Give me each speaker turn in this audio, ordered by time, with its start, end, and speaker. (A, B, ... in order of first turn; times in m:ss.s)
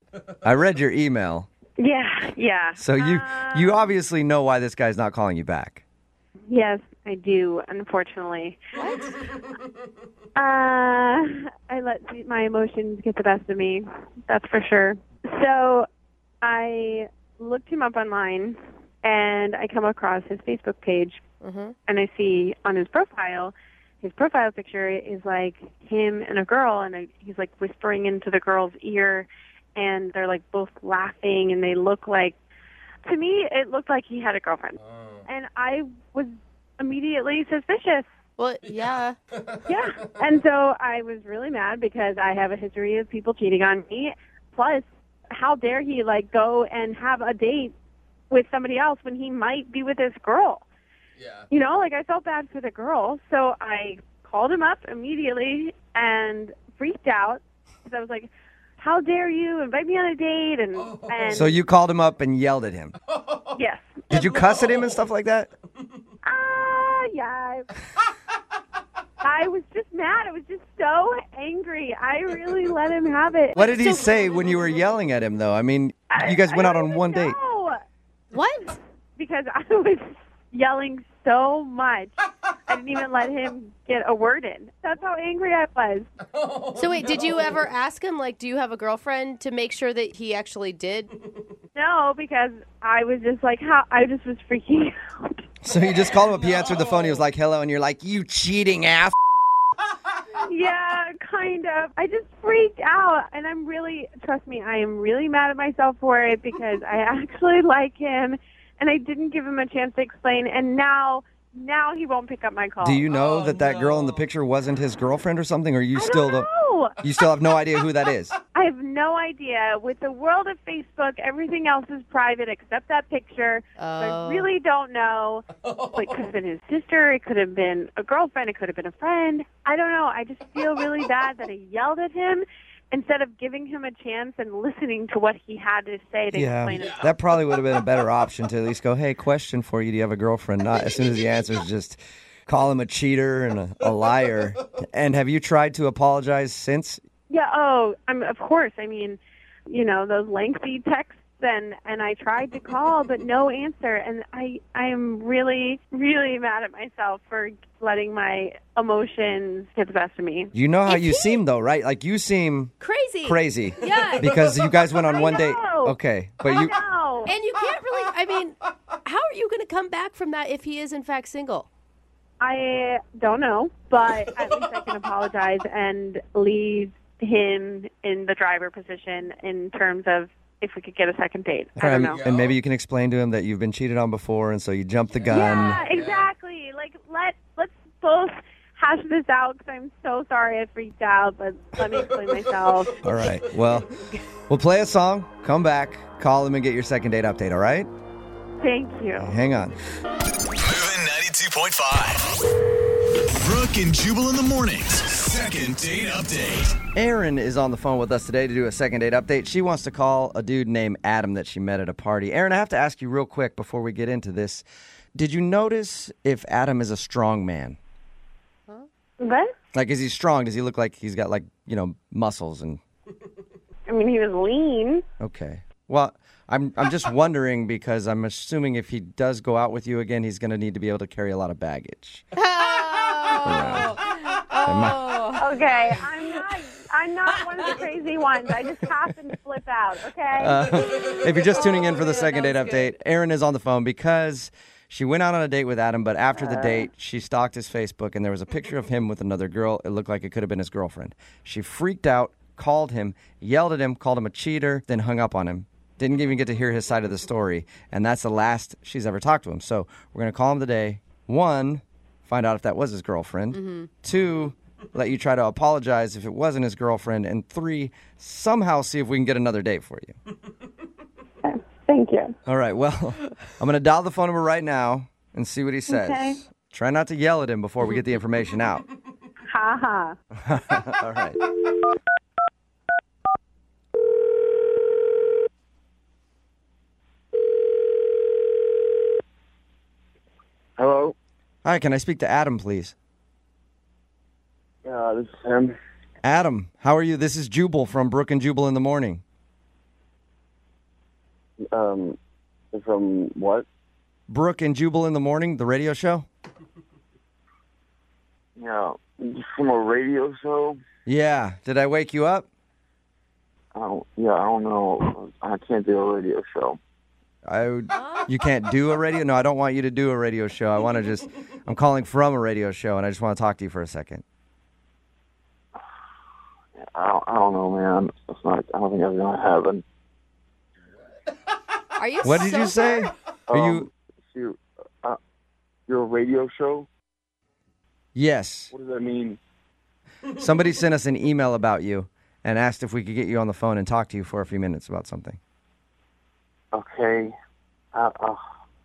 0:00.4-0:01.5 A
0:01.8-0:03.9 B
0:02.8-0:05.8 A
0:06.5-0:08.6 B
0:08.8-0:09.2 C
0:10.3-0:15.8 B
0:16.4-0:21.2 B
0:21.4-0:21.7 C
0:21.8-0:32.4 B
0:33.0-0:38.0 B
0:34.9-0:35.2 D
0:38.4-0:39.2 C
0:39.3-0:39.6 D
0:39.6-0:47.7 B
0:48.3-0:50.6 B
0:51.2-0:51.4 D
0:51.5-1:01.6 B
1:00.9-1:01.2 D
1:01.3-1:02.9 A
1:03.1-1:03.5 D
1:03.5-1:04.0 B
1:04.1-1:05.5 A
1:04.6-1:04.9 D
1:06.2-1:07.7 B
1:09.2-1:13.6 B
1:13.6-1:14.2 C
1:13.6-1:17.4 A
1:16.1-1:17.8 B
1:18.3-1:18.8 C
1:19.2-1:26.0 B
1:26.3-1:27.3 D
1:26.7-1:31.1 C
1:31.7-1:35.4 B
1:35.6-1:39.1 A
1:36.4-1:37.0 D
1:40.3-1:53.0 B
1:52.8-1:56.5 A
1:53.1-1:54.2 D
1:55.9-1:57.0 B
1:57.0-1:58.3 A
1:58.5-2:17.1 B
2:03.8-2:04.5 C
2:16.3-2:27.0 A
2:27.3-2:40.5 B
2:40.5-2:42.7 A
2:40.9-2:41.4 C
2:42.8-2:44.3 C
2:43.2-2:46.7 A
2:45.0-2:47.3 B
2:47.2-2:51.7 C
2:52.4-3:02.2 B
3:01.8-3:05.8 A
3:02.1-3:02.5 D
3:05.2-3:06.3 D
3:05.3-3:13.3 B
3:13.0-3:13.9 A
3:14.5-3:17.9 A
3:18.6-3:19.4 B
3:19.1-3:19.8 A
3:20.6-3:22.3 D
3:23.4-3:26.8 D
3:26.9-3:37.8 A
3:39.2-3:39.5 B
3:39.7-3:42.8 A
3:43.9-3:45.0 B
3:45.2-3:52.2 A
3:52.4-3:55.5 C
3:53.4-3:54.0 A
3:54.6-3:55.0 A
3:55.4-4:00.7 B
4:00.4-4:30.2 A
4:01.5-4:02.9 C
4:06.4-4:06.8 B
4:23.5-4:23.9 C
4:31.4-4:32.3 B
4:32.4-4:38.8 A
4:35.9-4:36.4 B
4:37.8-4:38.1 C
4:39.5-4:40.2 B
4:40.4-4:41.4 A
4:50.8-4:51.1 E
4:51.6-4:52.9 A
4:54.8-4:55.7 E
4:56.2-4:59.2 A
5:01.6-5:02.2 E
5:02.7-5:03.6 E
5:04.3-5:06.2 A
5:08.6-5:10.8 E
5:11.0-5:12.4 A
5:13.7-5:16.8 E
5:17.4-5:24.2 A
5:17.9-5:18.3 C
5:26.8-5:29.8 E
5:32.0-5:33.1 C
5:32.2-5:33.8 A
5:33.5-5:35.2 E
5:35.9-5:36.9 E
5:38.1-5:38.7 A
5:38.7-5:39.4 E
5:40.3-5:45.4 A
5:46.7-5:47.3 E
5:47.9-5:48.4 E